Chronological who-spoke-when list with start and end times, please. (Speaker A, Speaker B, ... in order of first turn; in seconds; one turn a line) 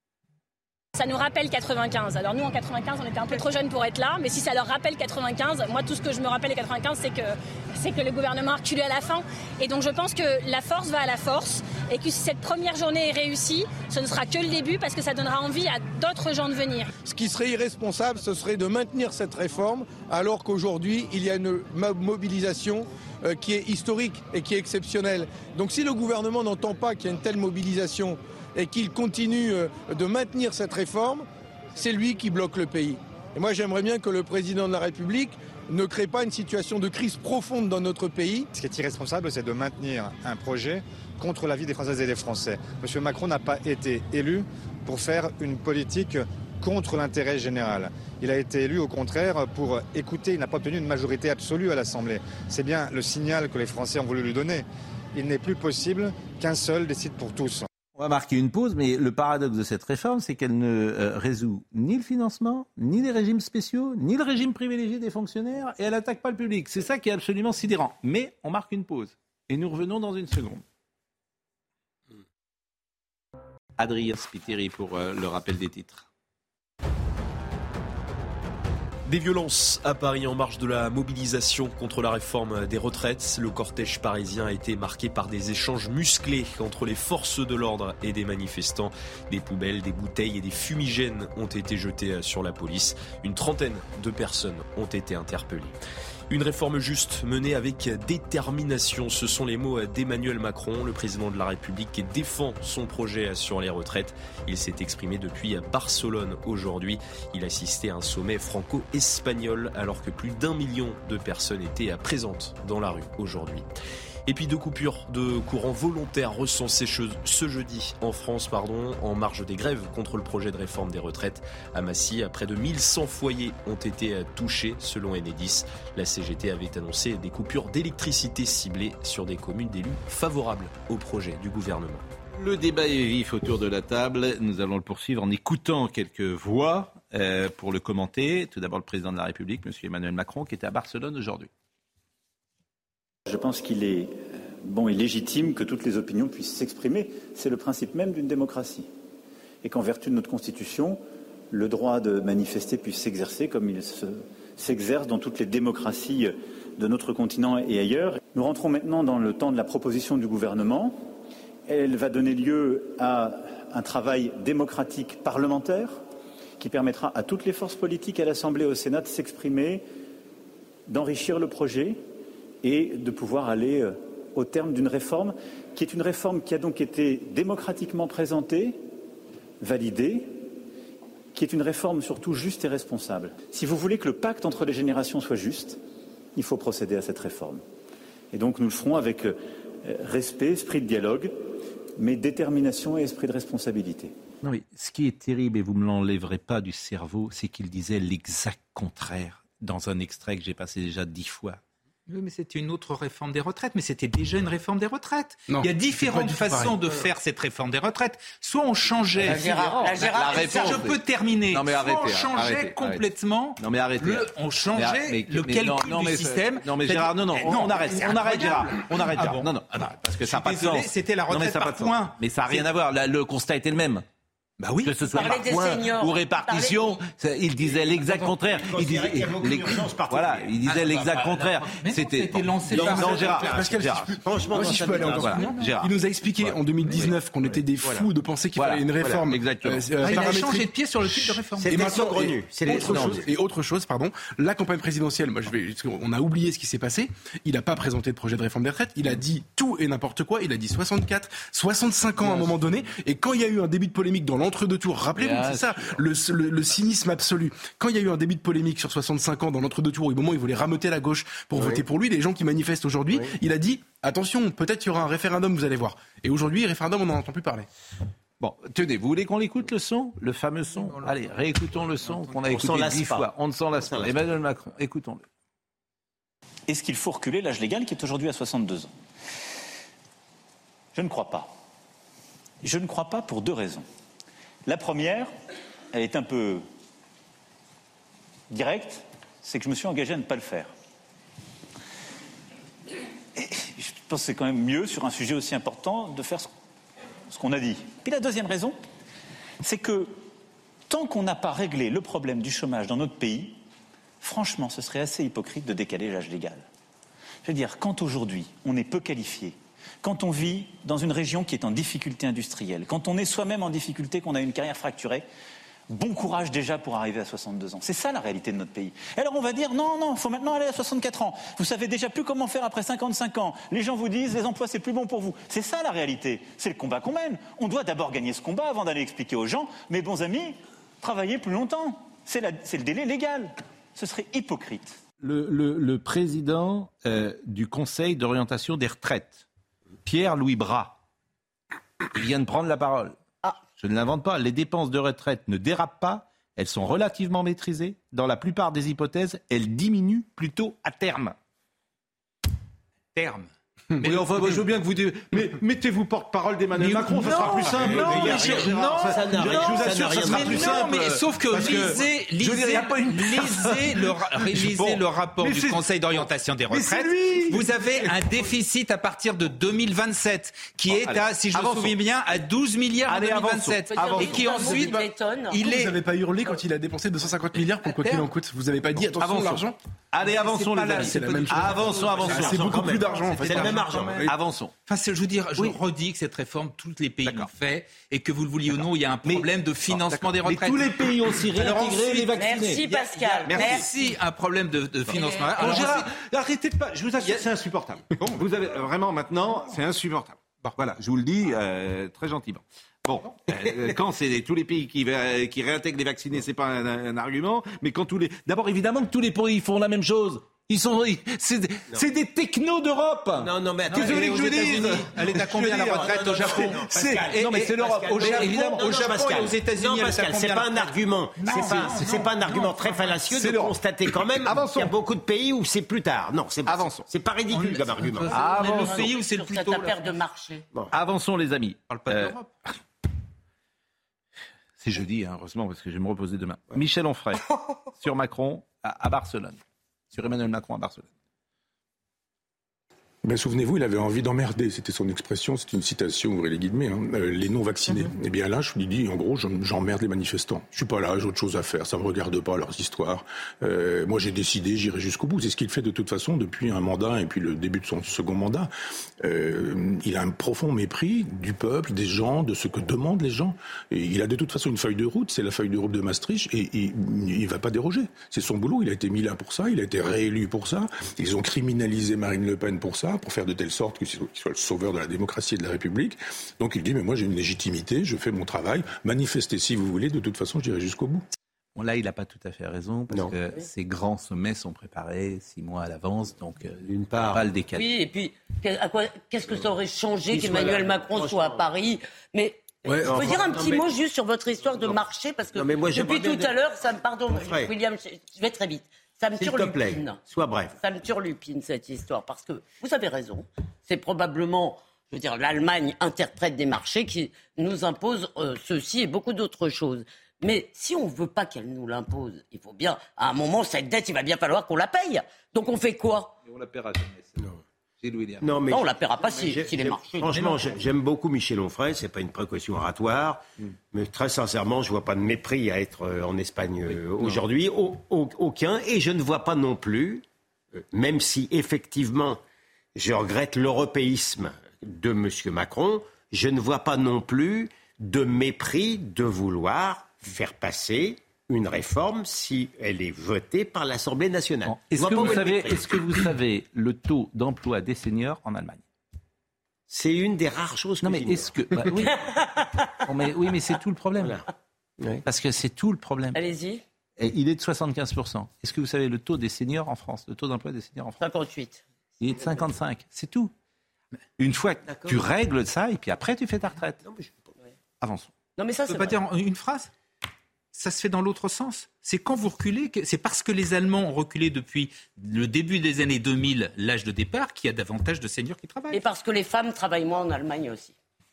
Speaker A: 1.0-16.9
Speaker B: 17.0-38.5
Speaker C: 38.5-57.7
Speaker D: 58.0-70.6
Speaker D: 73.8-76.1
Speaker E: 79.1-95.7
Speaker E: 96.3-113.7
Speaker E: 114.3-132.1
Speaker D: 132.3-141.5
Speaker F: 143.3-148.9
Speaker F: 149.6-161.0
Speaker F: 161.7-166.0
Speaker F: 166.6-169.8
Speaker F: 170.9-172.0
Speaker F: 172.6-178.8
Speaker F: 179.6-180.5
Speaker F: 181.3-185.8
Speaker F: 186.4-187.6
Speaker F: 188.3-191.3
Speaker F: 192.0-194.1
Speaker D: 194.4-201.6
Speaker G: 202.1-222.7
Speaker H: 205.5-206.8
Speaker D: 209.2-211.0
Speaker I: 209.2-210.8
Speaker D: 211.5-213.1
Speaker D: 213.6-224.0
Speaker G: 224.6-225.4
Speaker D: 224.8-234.2
Speaker I: 225.1-227.0
Speaker J: 227.6-230.9
Speaker G: 230.7-233.8
Speaker J: 232.7-233.6
Speaker H: 232.8-240.7
Speaker J: 234.2-235.5
Speaker D: 234.8-237.2
Speaker J: 237.8-238.1
Speaker D: 238.6-240.3
Speaker G: 240.0-242.0
Speaker J: 241.6-243.3
Speaker H: 241.7-267.7
Speaker D: 242.6-243.2
Speaker D: 255.2-256.0
Speaker J: 261.6-261.8
Speaker D: 268.4-275.2
Speaker J: 272.4-274.2
Speaker F: 276.7-278.9
Speaker F: 280.9-281.5
Speaker F: 282.6-283.9
Speaker F: 284.7-285.3
Speaker F: 285.9-286.6
Speaker F: 288.5-290.7
Speaker F: 293.4-296.5
Speaker F: 297.3-298.8
Speaker F: 299.6-300.1
Speaker F: 300.9-303.6
Speaker F: 304.2-306.6
Speaker F: 307.4-315.3
Speaker F: 315.9-335.0
Speaker D: 335.2-339.4
Speaker D: 340.1-341.0
Speaker D: 342.1-351.4
Speaker G: 353.1-353.5
Speaker D: 354.0-368.5
Speaker G: 354.0-354.6
Speaker G: 356.7-375.9
Speaker J: 357.2-361.9
Speaker D: 370.9-372.0
Speaker D: 373.1-374.9
Speaker I: 373.9-375.6
Speaker H: 375.6-379.8
Speaker G: 377.8-378.3
Speaker D: 379.1-382.8
Speaker G: 380.2-384.3
Speaker H: 380.8-383.9
Speaker J: 382.1-384.3
Speaker D: 384.2-384.7
Speaker G: 384.9-392.3
Speaker D: 387.2-387.5
Speaker D: 388.7-393.9
Speaker I: 391.7-393.9
Speaker G: 392.9-396.1
Speaker D: 395.1-419.1
Speaker I: 395.1-395.5
Speaker G: 397.2-397.5
Speaker G: 398.1-398.4
Speaker J: 413.4-428.4
Speaker G: 413.9-423.2
Speaker D: 421.5-422.3
Speaker D: 423.3-424.9
Speaker D: 426.7-427.0
Speaker G: 426.9-430.0
Speaker D: 428.3-429.1
Speaker I: 428.4-430.7
Speaker D: 430.9-432.4
Speaker G: 431.9-432.5
Speaker D: 434.8-439.6
Speaker D: 440.1-441.1
Speaker K: 443.2-458.7
Speaker K: 459.2-481.3
Speaker D: 481.8-487.9
Speaker J: 486.9-487.4
Speaker I: 487.8-500.2
Speaker J: 490.3-491.7
Speaker H: 492.9-493.4
Speaker J: 493.0-493.9
Speaker J: 495.6-496.6
Speaker J: 497.3-497.7
Speaker J: 499.4-500.8
Speaker I: 500.8-516.3
Speaker D: 516.5-517.5
Speaker D: 518.0-518.6
Speaker J: 518.4-530.2
Speaker I: 518.7-520.5
Speaker J: 530.8-532.4
Speaker J: 533.0-546.3
Speaker D: 544.7-548.8
Speaker J: 549.9-552.1
Speaker D: 551.0-552.2
Speaker I: 552.0-552.5
Speaker D: 553.0-554.4
Speaker J: 554.2-554.5
Speaker D: 555.2-556.4
Speaker I: 556.4-556.8
Speaker D: 557.2-561.2
Speaker I: 561.2-561.8
Speaker D: 562.2-563.5
Speaker D: 564.4-567.0
Speaker J: 564.9-565.2
Speaker J: 567.0-567.5
Speaker D: 568.0-568.3
Speaker I: 568.6-569.2
Speaker G: 568.9-569.9
Speaker G: 570.7-579.0
Speaker I: 578.9-581.0